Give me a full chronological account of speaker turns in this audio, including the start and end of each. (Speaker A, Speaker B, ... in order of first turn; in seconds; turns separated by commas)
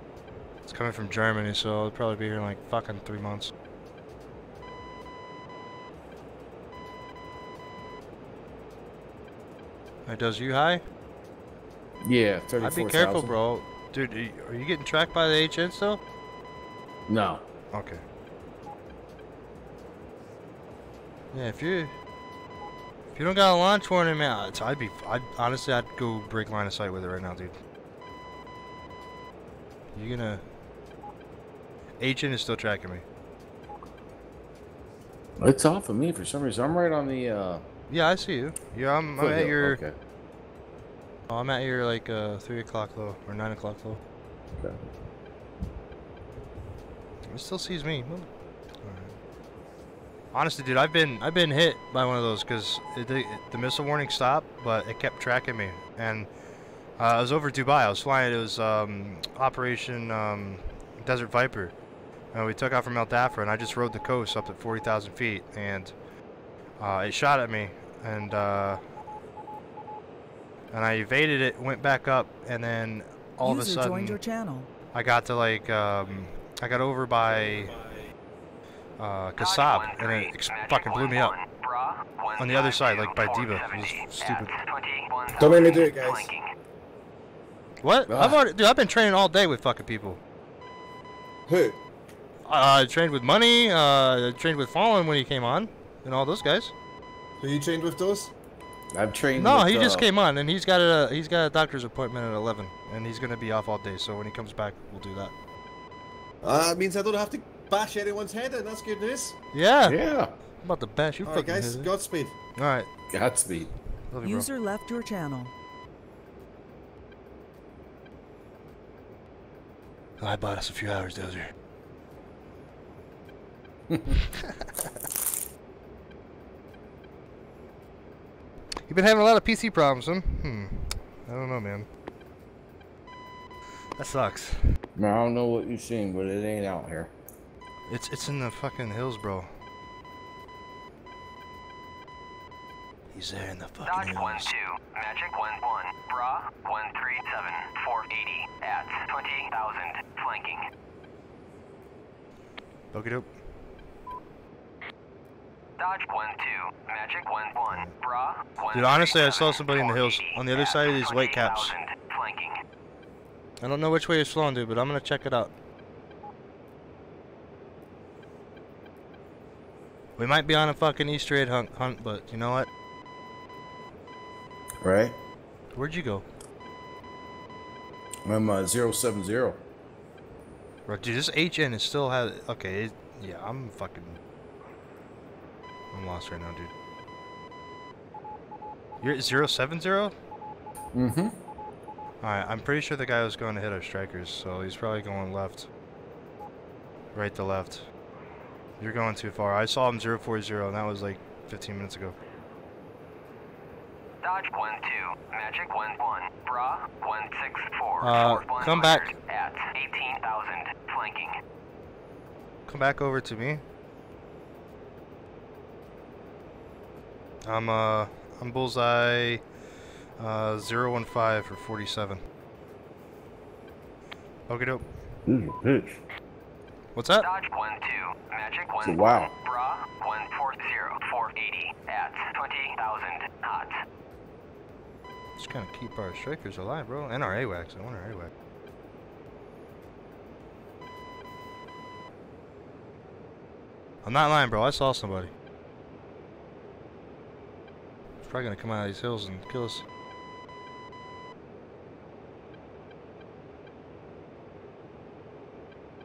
Speaker A: 0.7-3.5, Speaker A: 10.1-10.8, Speaker B: 12.0-13.3, Speaker A: 12.6-16.0, Speaker B: 17.1-17.4, Speaker A: 17.7-18.0, Speaker A: 21.3-21.9, Speaker A: 23.1-27.6, Speaker A: 29.9-30.4, Speaker A: 32.0-33.0, Speaker B: 35.4-37.6, Speaker A: 37.9-39.8, Speaker B: 39.2-40.0, Speaker A: 41.3-44.0, Speaker B: 44.6-44.9, Speaker A: 47.3-48.3, Speaker A: 48.8-49.2, Speaker A: 50.3-56.3, Speaker A: 57.0-61.7, Speaker A: 62.3-65.9, Speaker A: 66.8-68.8, Speaker A: 70.7-74.2, Speaker C: 73.4-74.7, Speaker A: 74.9-77.8, Speaker A: 79.0-81.3, Speaker D: 79.4-86.5, Speaker A: 82.4-84.5, Speaker E: 85.3-86.3, Speaker A: 87.8-90.2, Speaker B: 88.1-88.4, Speaker E: 91.5-91.8, Speaker A: 92.5-96.7, Speaker E: 97.4-98.3, Speaker B: 98.9-100.0, Speaker A: 99.4-105.3, Speaker E: 106.4-109.3, Speaker A: 109.5-110.0, Speaker B: 109.8-110.3, Speaker A: 110.6-111.9, Speaker E: 111.2-112.3, Speaker A: 112.6-112.9, Speaker B: 113.1-113.7, Speaker A: 114.1-114.5, Speaker C: 114.2-115.5, Speaker A: 120.2-121.5, Speaker A: 124.2-124.9, Speaker A: 128.9-131.9, Speaker A: 134.0-134.6, Speaker B: 134.9-137.1, Speaker A: 137.9-139.5, Speaker A: 143.1-144.5, Speaker D: 143.8-150.7, Speaker A: 152.9-153.3, Speaker D: 155.8-162.6, Speaker A: 158.7-161.7, Speaker A: 163.6-165.5, Speaker A: 170.2-172.7, Speaker B: 174.8-175.1, Speaker A: 175.7-176.2, Speaker B: 178.2-179.6, Speaker A: 180.9-184.2, Speaker A: 185.9-186.7, Speaker A: 189.0-190.1, Speaker B: 190.9-191.3, Speaker A: 192.2-195.7, Speaker A: 197.1-197.9, Speaker A: 198.8-202.1, Speaker D: 204.2-211.4, Speaker A: 208.0-209.1, Speaker A: 212.7-213.6, Speaker A: 217.4-219.4, Speaker A: 220.2-222.2, Speaker A: 224.5-224.8, Speaker B: 225.2-226.0, Speaker A: 226.9-227.3, Speaker D: 227.2-233.8, Speaker B: 228.8-229.3, Speaker A: 235.4-238.3, Speaker A: 244.0-245.3, Speaker A: 248.2-249.8